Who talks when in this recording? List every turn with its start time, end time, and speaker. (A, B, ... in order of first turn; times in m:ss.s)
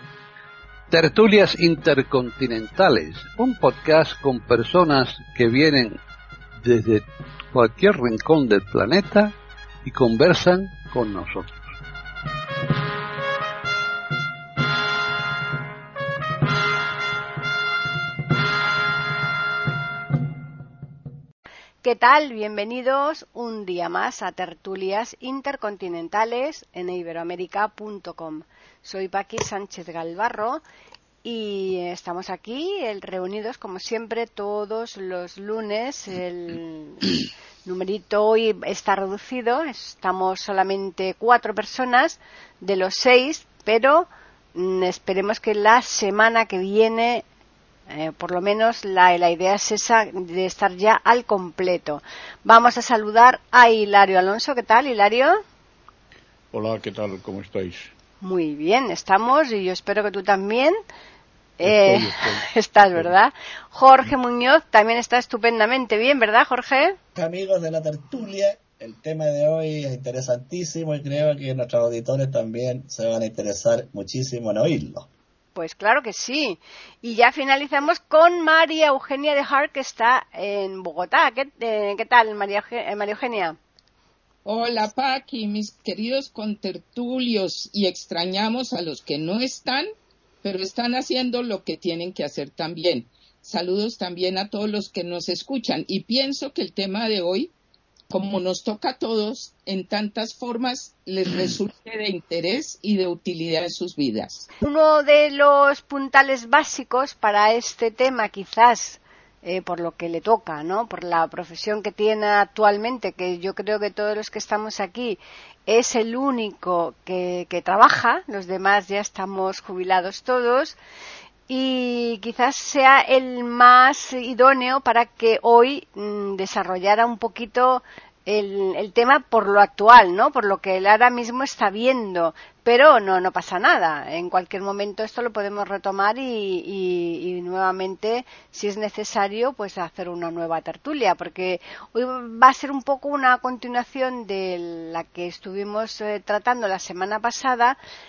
0:00.9-0:06.0 A
0:06.6-0:11.6 A
0:21.8-0:30.6 B
0:31.2-0:47.2 B
0:47.9-0:55.4 B
0:56.5-0:57.9 C
0:58.2-1:00.8 B
1:01.6-1:07.0 B
1:01.6-1:03.1 C
1:07.2-1:15.1 D
1:15.6-1:23.6 B
1:24.4-1:29.9 E
1:30.4-1:37.5 E
1:38.1-1:44.5 E
1:44.6-2:00.8 B
2:01.5-2:27.8 B